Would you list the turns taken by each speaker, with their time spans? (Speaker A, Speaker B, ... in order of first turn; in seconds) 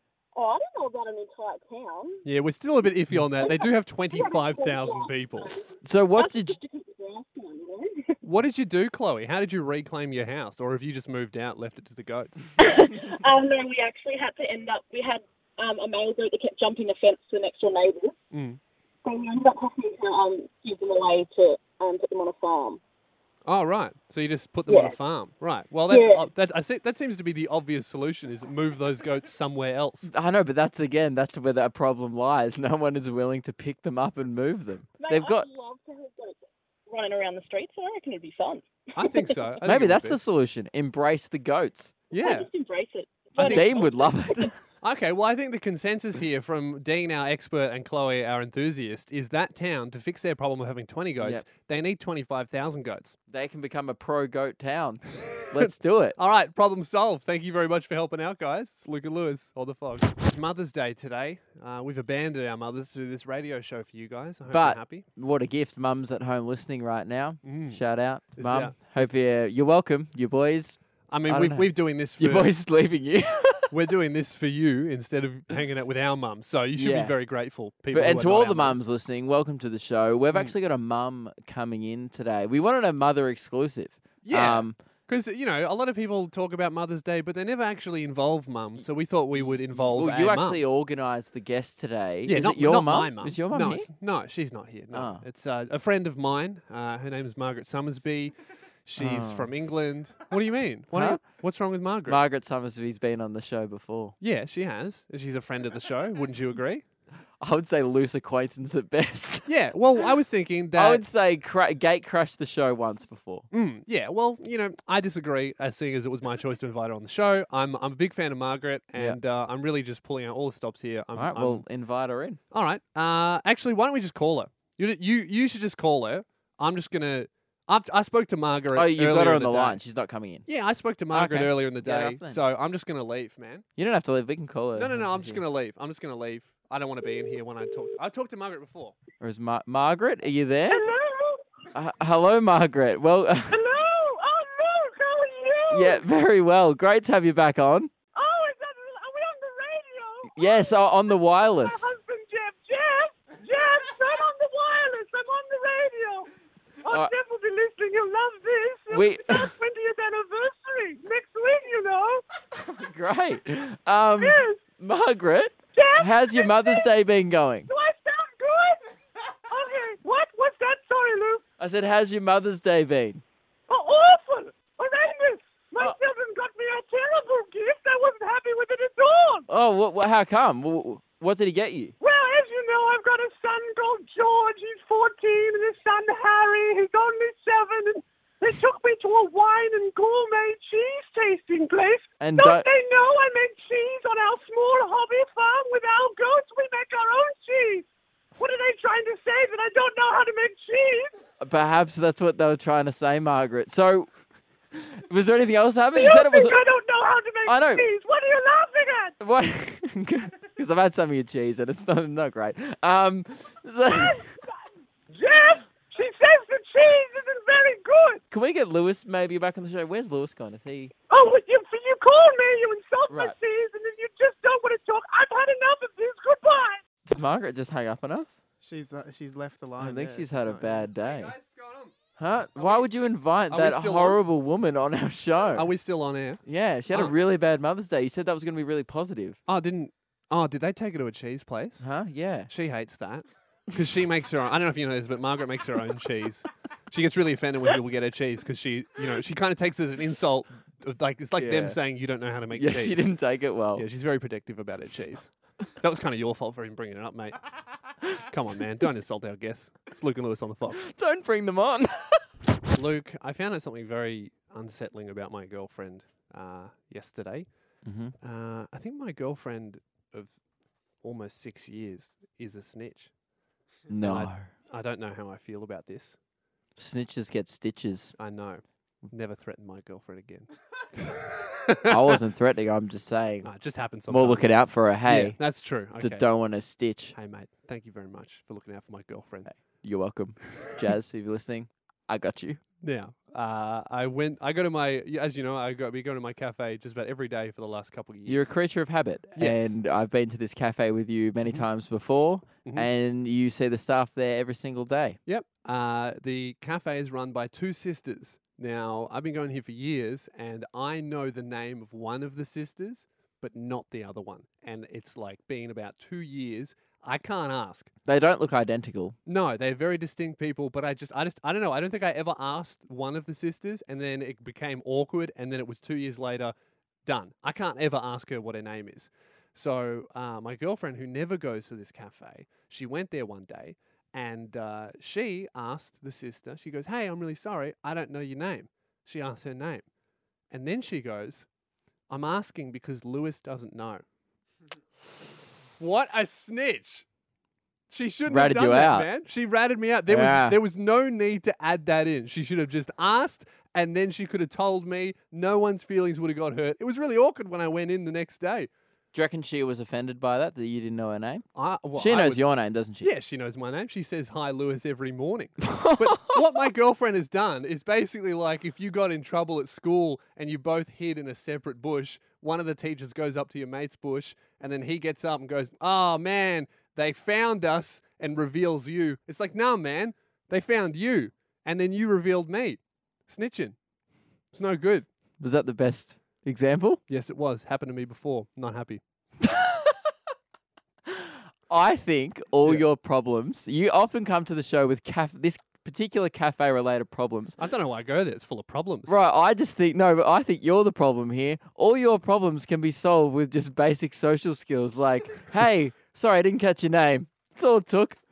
Speaker A: 0.3-2.2, 3.4-8.2, 12.6-18.2, 19.0-22.8, 24.7-25.0, 25.9-26.3, 35.0-39.5, 42.1-44.5
Speaker B: 2.2-5.7, 8.2-12.5, 18.3-18.6, 23.5-30.1, 39.0-40.2, 42.1-42.5, 43.4-43.8, 44.8-53.2, 55.6-65.1, 67.4-67.8, 68.3-69.1, 71.1-72.6, 73.7-78.8, 84.2-90.6, 92.3-98.3, 98.8-102.2, 104.2-106.8, 109.5-111.0, 113.5-121.7, 122.5-129.8, 130.5-133.7, 134.8-139.0, 231.0-231.9, 232.6-232.9, 233.5-234.2, 235.6-237.1, 239.5-241.8, 242.5-253.1, 253.8-257.4, 258.2-260.8, 262.7-267.5, 268.2-270.4, 271.0-273.1, 274.0-276.2, 278.2-280.5, 281.0-282.2, 283.4-286.2, 287.1-289.5, 292.8-298.5, 299.4-299.8, 305.3-317.9, 319.3-339.9, 340.5-341.5, 342.1-344.0, 345.8-347.1, 347.9-358.7, 361.6-362.4, 363.0-383.8, 384.5-385.1, 387.1-389.0, 397.6-399.1
Speaker C: 5.8-6.6, 30.1-35.5, 39.6-41.9, 43.4-44.6, 53.3-56.2, 64.5-73.7, 76.8-77.2, 77.9-84.8, 89.4-93.9, 94.9-95.2, 99.0-99.5, 100.9-101.2, 102.1-104.2, 107.4-109.5, 110.7-113.5, 121.2-122.4, 128.7-130.5, 131.1-132.4, 133.8-135.4, 139.2-140.9, 141.7-143.6, 145.7-147.9, 150.3-151.9, 158.9-159.5, 162.6-167.7, 171.6-173.2, 179.5-181.9, 192.2-192.7, 201.4-204.2, 204.7-206.6, 207.5-207.9, 209.2-214.3, 218.3-220.9, 223.1-223.3, 227.1-228.4, 229.8-231.3, 232.2-235.7, 236.4-239.4, 241.8-242.5, 251.4-251.8, 252.5-253.9, 260.7-262.3, 267.8-268.1, 273.9-274.5, 276.8-278.2, 281.9-283.5, 284.1-285.4, 286.0-287.1, 289.6-292.6, 298.3-305.2, 318.1-319.2, 348.3-349.1, 350.1-350.6, 359.1-361.5, 362.0-363.1, 365.6-366.4, 385.4-387.0, 389.4-390.0, 391.1-397.6, 399.1-408.2
Speaker D: 140.7-141.4, 143.5-146.0, 148.1-156.3, 156.8-162.2, 164.2-164.6, 165.7-166.9, 167.7-168.8, 169.5-171.4, 173.7-179.5, 182.0-197.9, 198.4-201.1, 205.9-209.2, 215.1-218.2, 221.1-226.8
Speaker E: 228.6-230.9